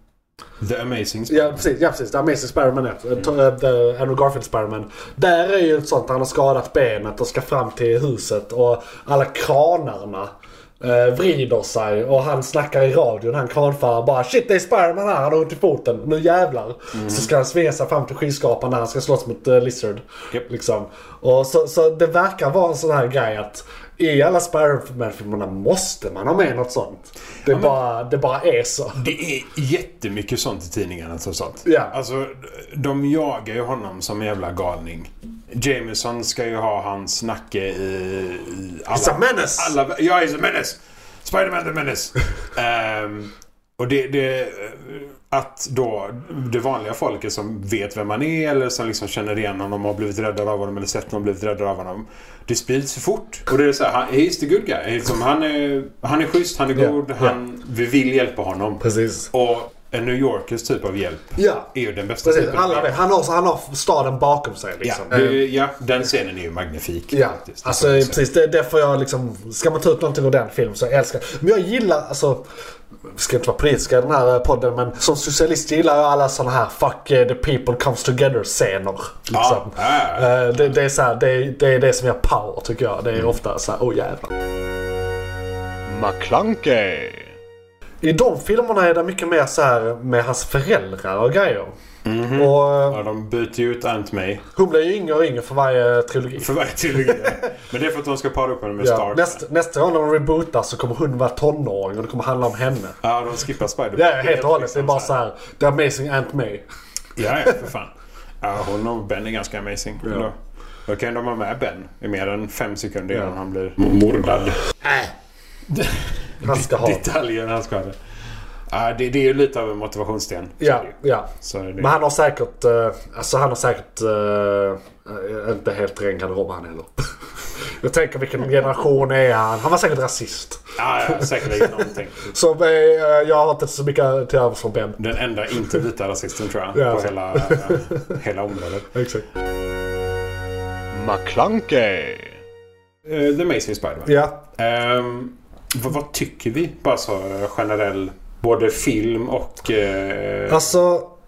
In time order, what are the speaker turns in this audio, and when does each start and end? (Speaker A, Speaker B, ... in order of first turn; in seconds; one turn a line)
Speaker A: 0.6-1.7
Speaker B: 1.3-29.1
Speaker A: 16.9-17.3
Speaker A: 27.5-27.8
Speaker A: 29.0-63.0
Speaker B: 31.6-31.9
Speaker B: 38.9-39.8
Speaker B: 56.8-57.4
Speaker B: 58.8-59.3
Speaker B: 61.4-61.7
Speaker B: 62.2-65.4
Speaker A: 64.8-68.2
Speaker B: 67.1-72.5
Speaker B: 73.1-84.3
Speaker A: 79.3-80.5
Speaker C: 85.9-87.3
Speaker B: 88.0-91.8
Speaker A: 92.0-94.5
Speaker B: 92.3-93.0
Speaker B: 94.5-97.5
Speaker A: 96.4-99.4
Speaker B: 98.8-103.0
Speaker A: 103.0-105.1
Speaker B: 104.0-106.6
Speaker A: 107.2-110.3
Speaker A: 110.9-114.6
Speaker A: 115.7-118.0
Speaker B: 116.4-117.0
Speaker A: 118.7-121.9
Speaker B: 120.6-127.1
Speaker B: 127.8-135.0
Speaker A: 130.8-132.3
Speaker A: 135.0-138.9
Speaker B: 136.7-138.2
Speaker B: 138.9-139.3
Speaker C: 140.9-142.4
Speaker A: 143.1-150.8
Speaker B: 144.1-144.4
Speaker B: 150.5-151.1